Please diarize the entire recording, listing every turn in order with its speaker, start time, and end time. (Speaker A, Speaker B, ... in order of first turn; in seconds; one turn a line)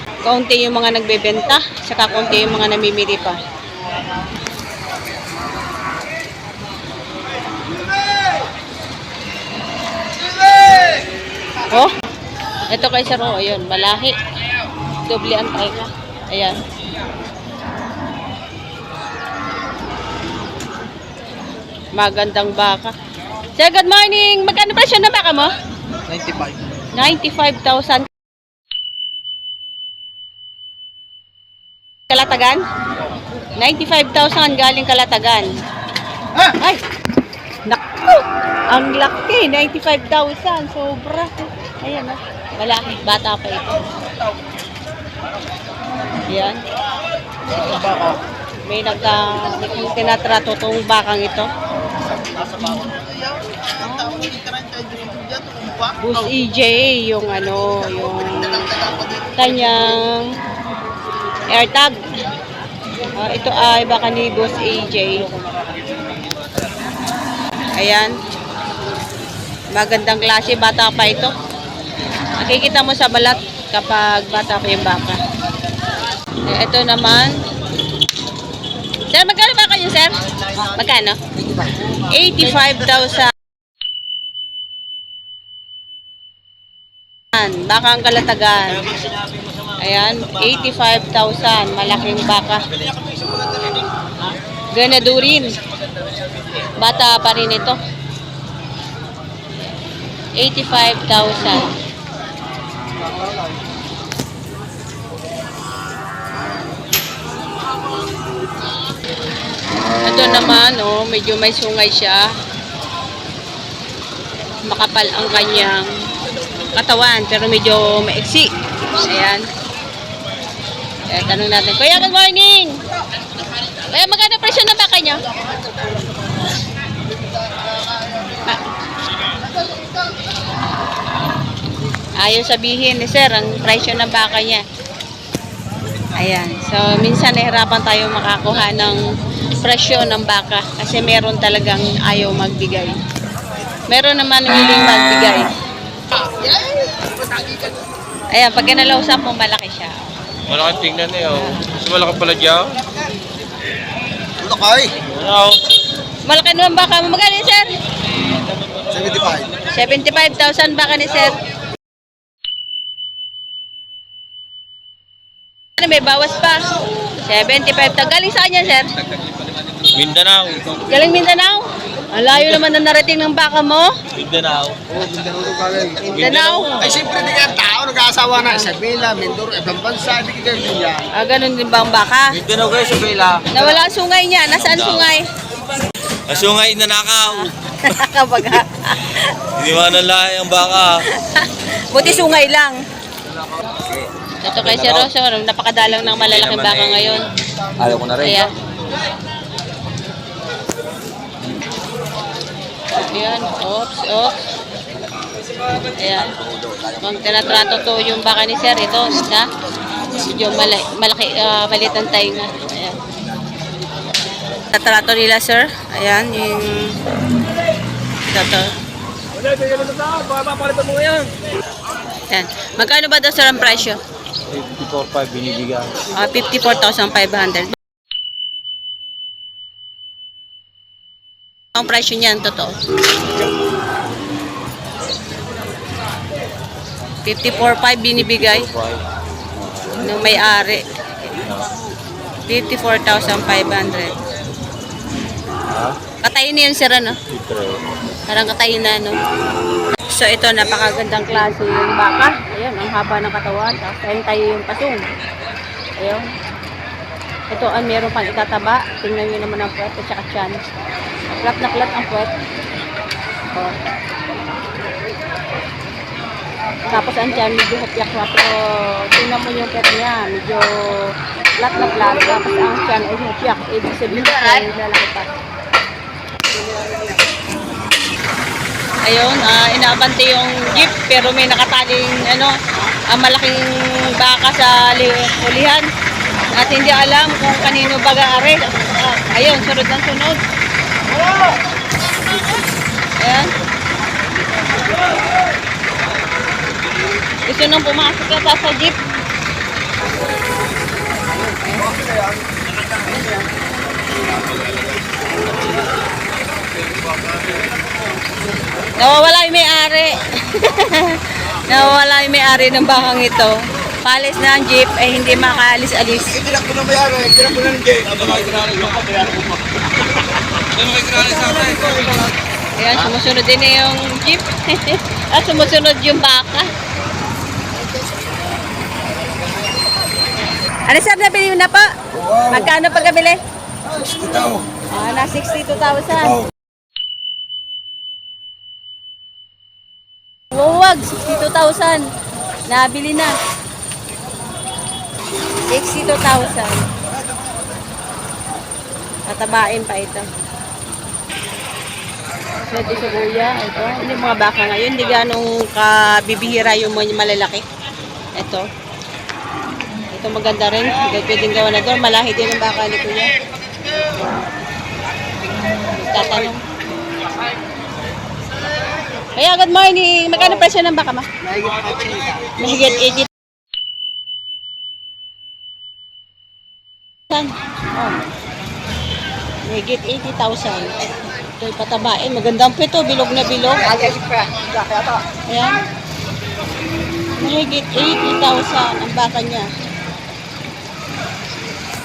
Speaker A: 0.2-3.4
Speaker A: 12.7-14.2
Speaker A: 15.0-16.6
Speaker A: 21.9-22.9
Speaker A: 23.6-25.5
Speaker B: 26.1-26.5
Speaker A: 26.9-28.1
Speaker A: 32.1-32.6
Speaker A: 33.6-35.5
Speaker A: 36.5-36.8
Speaker A: 37.7-43.9
Speaker A: 46.3-46.6
Speaker A: 47.6-48.1
Speaker A: 48.6-51.5
Speaker B: 52.1-56.1
Speaker A: 53.8-54.4
Speaker A: 56.0-58.8
Speaker B: 58.8-59.3
Speaker A: 59.4-60.3
Speaker A: 61.5-62.0
Speaker A: 63.1-65.3
Speaker A: 67.8-68.1
Speaker A: 69.7-71.3
Speaker A: 72.4-75.2
Speaker A: 76.5-77.4
Speaker A: 79.1-81.2
Speaker A: 82.0-83.3
Speaker A: 87.3-88.9
Speaker A: 89.8-92.7
Speaker A: 94.7-95.6
Speaker A: 96.7-97.8
Speaker A: 100.4-101.7
Speaker A: 110.0-112.3
Speaker A: 114.7-116.0
Speaker A: 116.6-119.5
Speaker A: 121.1-122.8
Speaker A: 123.8-125.3
Speaker A: 132.2-134.6
Speaker A: 136.1-139.0
Speaker A: 139.6-143.0
Speaker A: 143.9-145.5
Speaker B: 146.2-147.8
Speaker A: 148.3-150.0
Speaker C: 150.5-152.8
Speaker A: 151.3-151.7
Speaker B: 154.4-154.9
Speaker C: 155.1-155.6
Speaker A: 156.2-157.7
Speaker B: 158.9-159.5
Speaker A: 159.7-161.4
Speaker A: 165.8-166.6
Speaker A: 167.2-168.9
Speaker C: 169.9-170.9
Speaker A: 170.9-173.9
Speaker C: 174.2-174.8
Speaker B: 174.9-176.1
Speaker A: 176.0-176.8
Speaker C: 176.1-177.1
Speaker B: 176.8-181.1
Speaker A: 181.1-182.4
Speaker C: 182.3-183.5
Speaker A: 183.5-185.2
Speaker C: 184.5-185.1
Speaker C: 186.3-187.5
Speaker A: 187.3-189.4
Speaker C: 189.6-191.0
Speaker A: 191.1-192.8
Speaker A: 194.4-197.2
Speaker C: 194.6-195.1
Speaker C: 196.0-197.2
Speaker C: 197.8-198.4
Speaker A: 198.2-198.5
Speaker A: 202.9-204.4
Speaker A: 205.9-206.3
Speaker A: 207.0-209.5
Speaker A: 210.1-213.0
Speaker A: 214.7-216.9
Speaker A: 218.3-218.7
Speaker A: 222.3-224.0
Speaker C: 224.5-225.9
Speaker A: 226.1-227.8
Speaker A: 231.7-232.8
Speaker A: 237.2-238.7
Speaker C: 238.2-239.0
Speaker C: 239.6-239.9
Speaker A: 239.9-240.9
Speaker C: 241.4-241.7
Speaker A: 242.5-244.2
Speaker C: 245.7-245.9
Speaker A: 246.2-247.2
Speaker C: 247.3-247.8
Speaker A: 248.3-249.2
Speaker A: 250.1-255.0
Speaker A: 256.0-256.3
Speaker A: 257.5-260.6
Speaker A: 261.3-262.3
Speaker A: 266.9-275.3
Speaker A: 279.1-282.6
Speaker A: 283.1-285.9
Speaker A: 286.6-290.4
Speaker A: 293.2-293.5
Speaker A: 297.4-299.0
Speaker A: 301.6-301.9
Speaker A: 309.0-316.6
Speaker B: 316.5-319.2
Speaker C: 318.3-318.9
Speaker C: 320.8-321.9
Speaker A: 322.8-326.7
Speaker A: 330.9-333.4
Speaker A: 334.9-336.4
Speaker A: 340.5-342.1
Speaker A: 342.7-343.4
Speaker A: 345.7-346.9
Speaker A: 349.3-350.3
Speaker A: 352.7-357.6
Speaker A: 358.4-358.7
Speaker A: 360.1-363.4
Speaker A: 365.9-366.6
Speaker A: 369.4-371.3
Speaker B: 371.5-372.5
Speaker A: 372.6-373.3
Speaker A: 377.3-378.2
Speaker A: 379.6-383.9
Speaker B: 383.9-385.2
Speaker A: 385.5-385.8
Speaker A: 387.4-389.7